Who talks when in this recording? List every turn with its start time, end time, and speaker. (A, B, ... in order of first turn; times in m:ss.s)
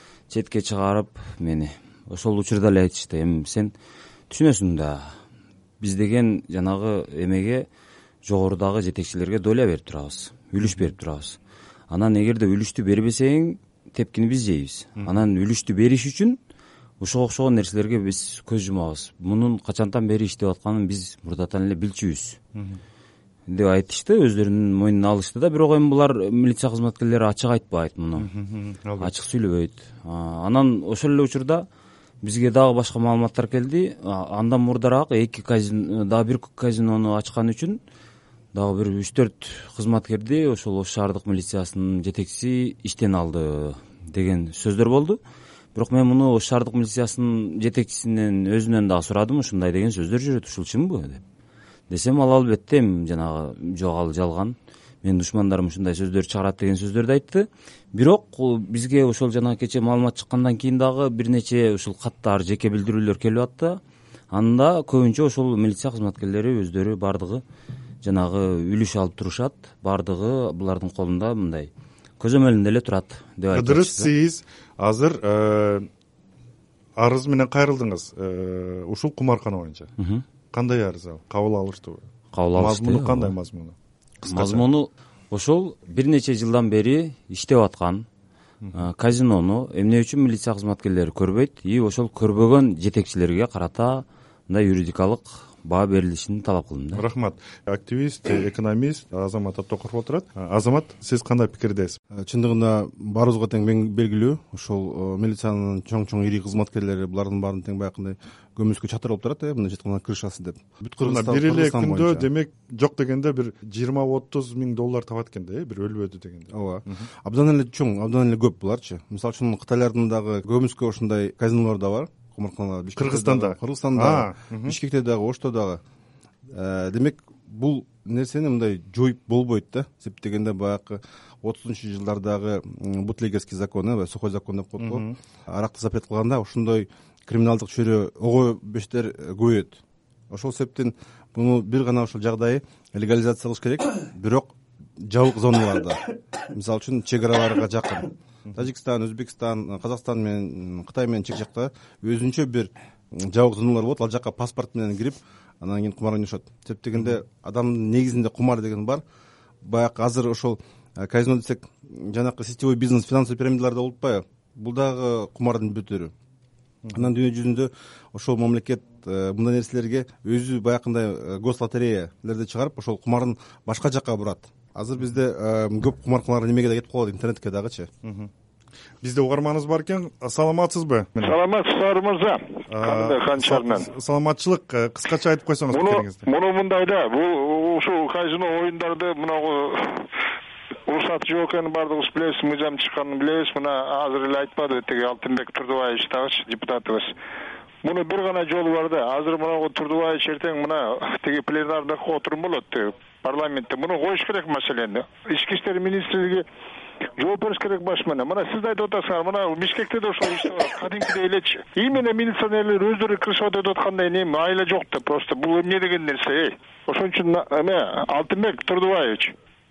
0:00.3-0:03.7 A
0:04.3-0:05.0 A
0:05.8-0:07.7 A
0:08.2-0:11.4 A
0:11.9-0:16.4 A
0:17.0-0:22.4 A
0:22.5-0:22.8 B
0:23.5-0:28.3 A
0:28.2-0:29.1 B
0:29.0-0:31.6 A
0:32.2-0:37.8 A
0:38.5-0:45.2 A
0:45.7-0:51.2 A
0:51.9-1:03.8 A
1:04.3-1:07.4 A
1:08.0-1:14.1 A
1:13.5-1:15.9 B
1:17.0-1:19.9 B
1:20.0-1:20.2 A
1:20.5-1:24.6 B
1:22.3-1:23.3 A
1:24.2-1:28.0 A
1:28.7-1:37.0 A
1:36.9-1:42.0 B
1:42.1-1:52.3 C
1:51.0-1:57.1 B
1:56.5-2:05.8 C
2:03.0-2:04.7 B
2:06.5-2:39.0 C
2:14.8-2:15.1 B
2:39.6-2:46.1 C
2:46.8-2:47.1 B
2:46.9-2:57.9 C
2:58.0-2:58.3 B
2:59.0-3:01.4 B
3:01.2-3:03.9 D
3:02.7-3:06.3 B
3:05.7-3:10.1 D
3:10.9-3:17.1 D
3:17.8-3:26.4 D
3:27.2-3:39.3 D